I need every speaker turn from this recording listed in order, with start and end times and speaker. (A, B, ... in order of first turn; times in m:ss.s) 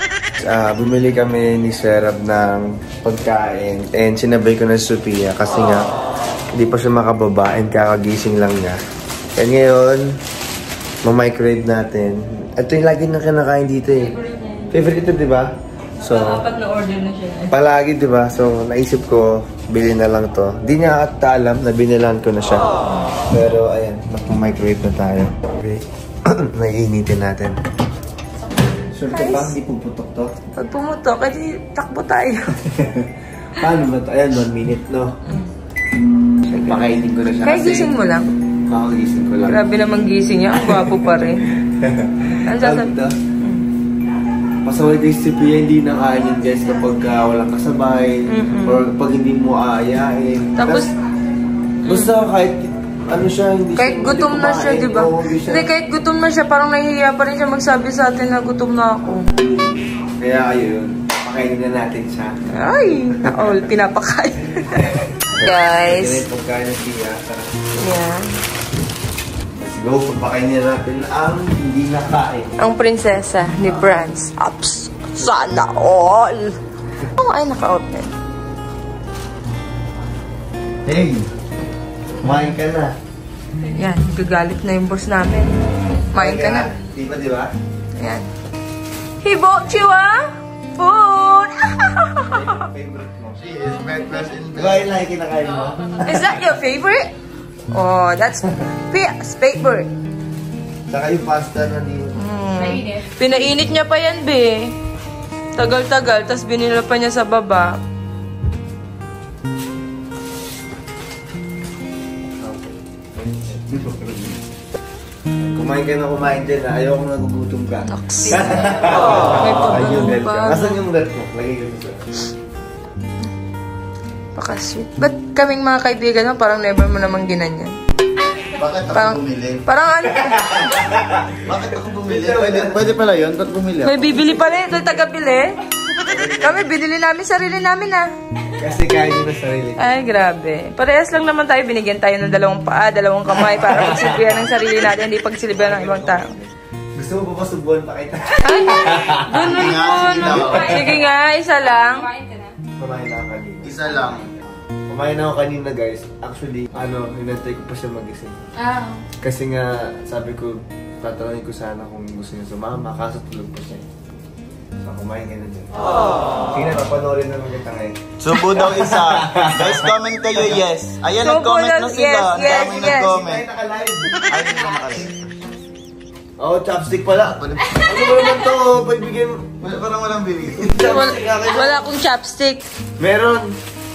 0:00.4-0:05.9 A
0:06.5-0:08.8 A
0:09.4-0:10.1 A
0:11.0-0:14.1 A
0:14.0-0:14.7 B
0:14.7-0:16.4 A
0:16.0-0:17.6 B
0:17.5-0:22.7 A
0:23.3-0:27.6 A
0:28.9-0:30.4 A
0:29.1-0:29.5 B
0:30.6-0:32.6 B
0:32.7-0:35.2 A
0:36.5-0:37.9 A
0:37.4-0:38.3 B
0:38.7-0:39.6 A
0:39.5-0:41.4 B
0:41.7-0:43.2 A
0:42.5-0:42.9 B
0:44.7-0:50.9 A
0:48.3-0:48.8 B
0:50.6-0:50.9 B
0:51.8-0:52.2 B
0:51.8-0:55.7 A
0:53.8-0:59.3 B
0:59.3-1:02.4 A
1:02.5-1:04.9 B
1:03.2-1:03.7 A
1:04.8-1:07.7 A
1:05.4-1:06.2 B
1:07.8-1:08.3 B
1:09.6-1:12.5 A
1:12.6-1:16.6 B
1:13.6-1:14.0 A
1:17.2-1:18.1 B
1:20.9-1:21.2 A
1:22.2-1:23.0 A
1:23.8-1:25.6 B
1:26.1-1:26.7 B
1:26.1-1:27.5 A
1:28.0-1:28.3 B
1:29.2-1:32.6 B
1:32.3-1:33.7 A
1:33.4-1:34.9 C
1:34.6-1:36.3 A
1:36.0-1:37.1 B
1:37.7-1:39.9 B
1:40.9-1:42.2 A
1:42.2-1:44.7 B
1:42.6-1:43.1 D
1:45.6-1:47.8 B
1:52.4-1:54.3 A
1:55.4-2:02.0 A
1:57.9-2:00.8 B
2:04.4-2:07.8 B
2:08.6-2:09.6 C
2:08.9-2:10.7 B
2:10.3-2:12.8 A
2:11.4-2:14.4 C
2:13.8-2:15.6 B
2:16.1-2:16.6 A
2:16.4-2:18.1 B
2:18.6-2:19.9 A
2:19.8-2:26.3 B
2:23.6-2:24.5 A
2:25.5-2:30.7 A
2:28.4-2:32.1 B
2:29.3-2:30.8 C
2:29.5-2:32.5 D
2:32.8-2:34.0 A
2:33.6-2:34.3 C
2:34.9-2:38.4 A
2:38.6-2:39.0 D
2:39.2-2:43.9 A
2:44.8-2:45.7 A
2:46.5-2:48.0 A
2:48.2-2:53.4 C
2:48.5-2:50.6 A
2:51.2-2:53.1 B
2:52.4-2:54.9 A
2:54.3-2:55.3 C
2:56.4-2:59.6 A
2:59.6-3:00.7 C
3:00.6-3:01.9 A
3:00.8-3:02.6 B
3:03.0-3:03.5 A